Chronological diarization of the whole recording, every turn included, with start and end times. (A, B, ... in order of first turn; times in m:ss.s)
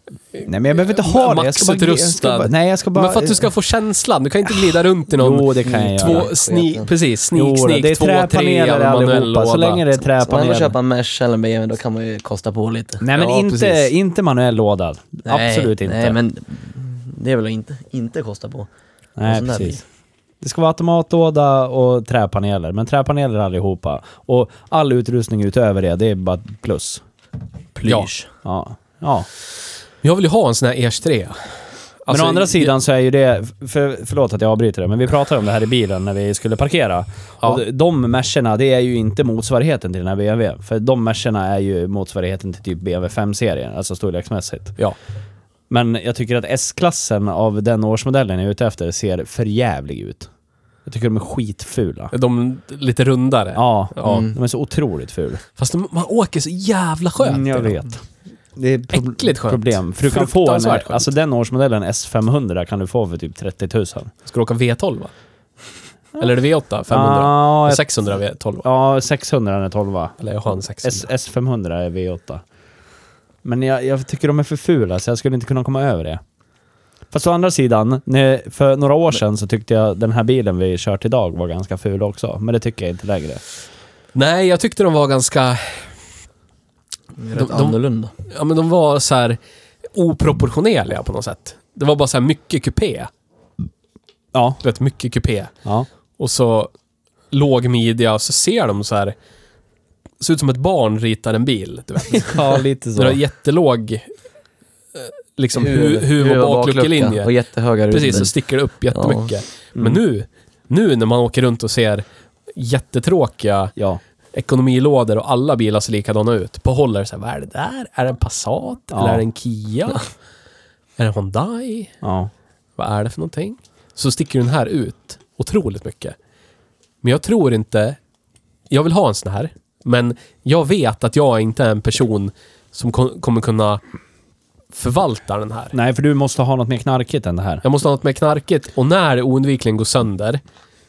0:00.3-0:09.9 A
0:00.4-0:03.5 B
0:05.1-0:06.3 B
0:05.6-0:06.9 C
0:07.3-0:10.7 B
0:10.2-0:13.4 C
0:13.0-0:16.2 B
0:13.4-0:13.9 A
0:15.2-0:18.7 C
0:19.2-0:19.8 B
0:19.3-0:19.8 C
0:20.4-0:27.0 B
0:27.7-0:28.2 C
0:27.8-0:28.1 A
0:28.4-0:29.3 B
0:30.0-0:32.7 A
0:32.1-0:44.8 B
0:45.7-0:50.3 B
0:50.8-0:52.1 B
0:52.1-0:54.3 A
0:53.5-0:55.4 B
0:54.0-0:54.3 C
0:55.6-0:57.8 A
0:57.2-0:58.0 B
0:58.6-1:04.1 B
0:58.9-1:01.1 A
1:04.2-1:05.1 A
1:06.2-1:08.6 A
1:06.9-1:07.8 B
1:08.6-1:10.2 B
1:10.2-1:11.1 A
1:10.8-1:12.4 B
1:13.4-1:16.2 B
1:17.1-1:23.4 B
1:24.1-1:25.9 A
1:27.2-1:28.1 C
1:27.3-1:29.4 A
1:29.9-1:33.1 A
1:34.3-1:34.6 B
1:34.6-1:35.5 A
1:36.2-1:36.7 A
1:37.3-1:39.2 A
1:40.2-1:44.1 A
1:42.1-1:43.2 B
1:44.9-1:47.3 A
1:45.5-1:48.3 C
1:47.9-1:53.7 A
1:48.9-1:49.3 C
1:54.3-2:00.1 A
1:58.9-1:59.2 B
2:01.0-2:01.9 A
2:02.0-2:02.3 B
2:02.8-2:06.2 A
2:07.0-2:08.0 A
2:08.7-2:13.8 A
2:14.7-2:15.7 A
2:15.7-2:17.6 B
2:17.6-2:20.4 A